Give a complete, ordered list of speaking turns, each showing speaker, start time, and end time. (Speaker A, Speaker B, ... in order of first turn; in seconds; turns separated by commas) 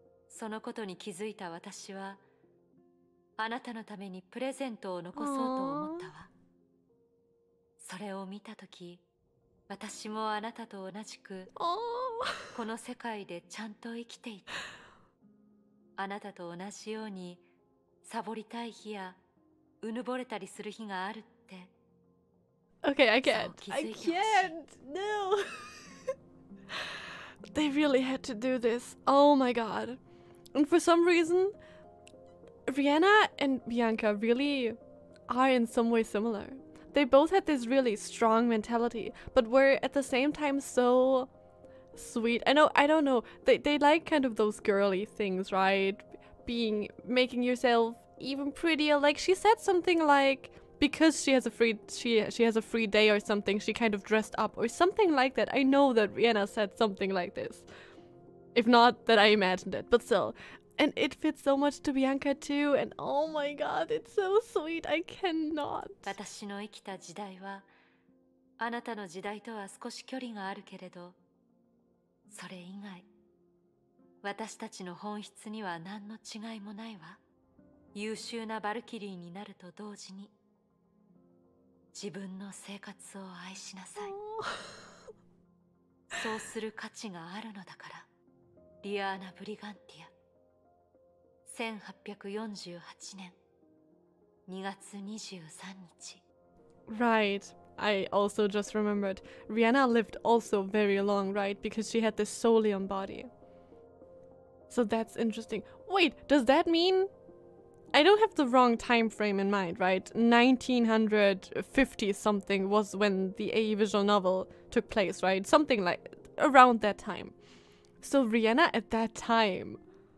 Speaker A: 0.3-2.2, Speaker A: 3.4-6.3, Speaker B: 5.2-6.1, Speaker A: 7.8-9.0, Speaker A: 9.7-11.5, Speaker B: 11.6-12.3, Speaker A: 12.5-14.5, Speaker A: 16.0-17.4, Speaker A: 18.0-19.2, Speaker A: 19.8-21.7, Speaker B: 22.8-25.7, Speaker A: 23.2-24.5, Speaker B: 27.5-30.0, Speaker B: 30.5-31.5, Speaker B: 32.7-34.8, Speaker B: 35.3-41.3, Speaker B: 41.9-57.6, Speaker B: 58.5-66.1, Speaker A: 66.0-67.7, Speaker A: 68.6-71.2, Speaker A: 72.3-73.0, Speaker A: 74.2-77.2, Speaker A: 77.9-80.3, Speaker A: 81.9-84.2, Speaker B: 84.0-84.6, Speaker A: 86.1-88.1, Speaker A: 88.8-90.1, Speaker A: 91.5-93.3, Speaker A: 94.5-96.2, Speaker B: 96.9-103.3, Speaker B: 104.7-107.1, Speaker B: 107.9-117.3, Speaker B: 118.0-119.8